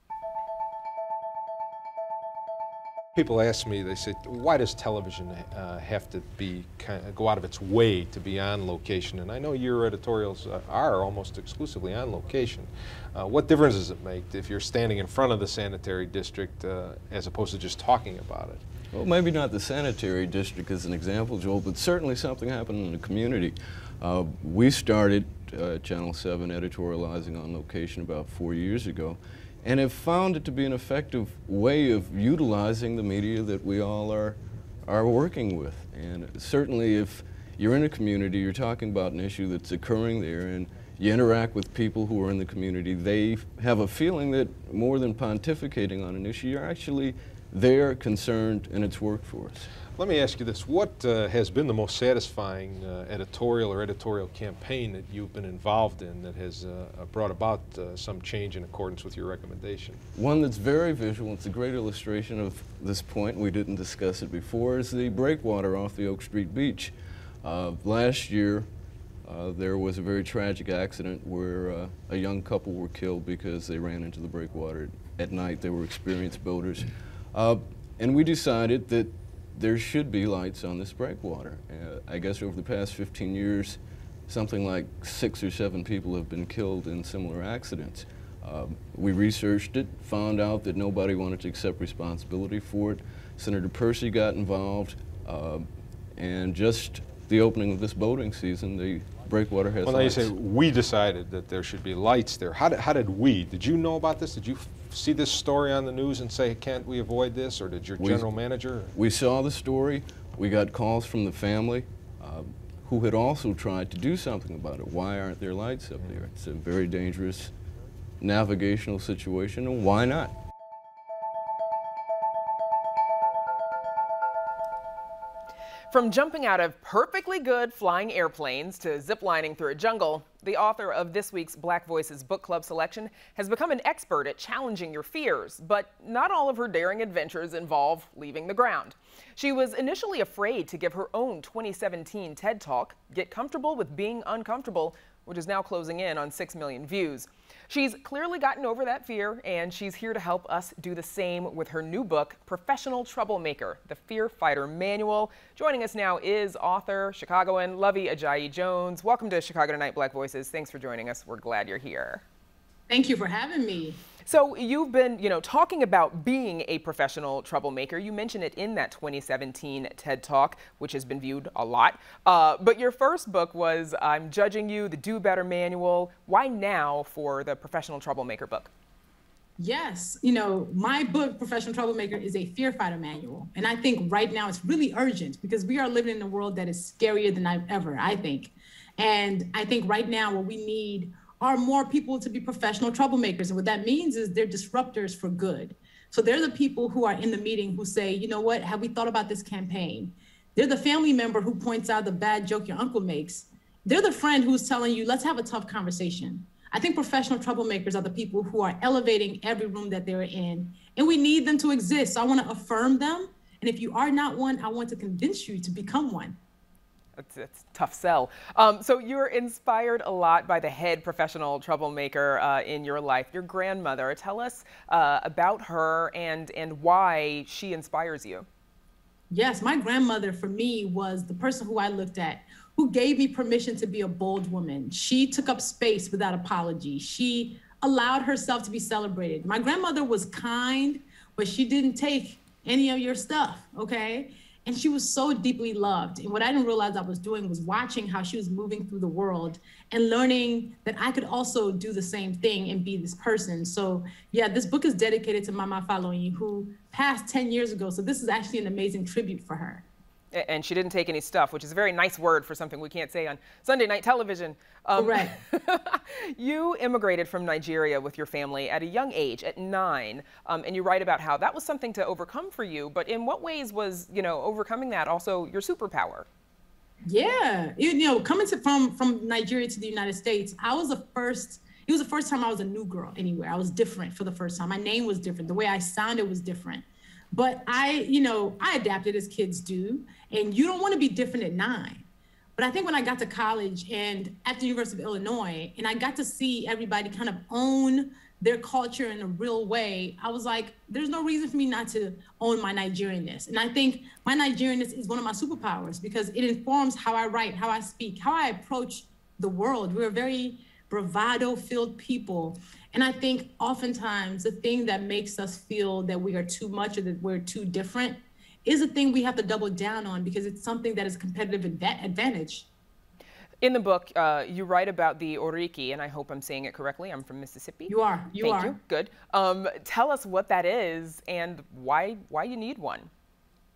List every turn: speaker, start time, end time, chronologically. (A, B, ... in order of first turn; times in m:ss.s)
0:03.2-0:18.6 A
0:18.9-0:49.7 B
0:50.0-1:00.0 A
1:00.1-1:08.7 B
1:09.2-1:40.3 B
1:39.8-1:48.9 A
1:48.0-1:48.4 B
1:48.9-1:57.5 B
1:58.2-2:00.3 B
2:05.9-2:42.2 C
2:42.9-2:44.0 D
2:44.2-2:58.7 C
2:59.6-3:36.4 D
3:37.2-3:48.5 C
3:49.3-4:19.8 D
4:20.3-4:36.3 C
4:24.9-4:25.3 D
4:37.1-5:22.7 D
5:23.6-5:33.1 C
5:27.9-5:28.8 D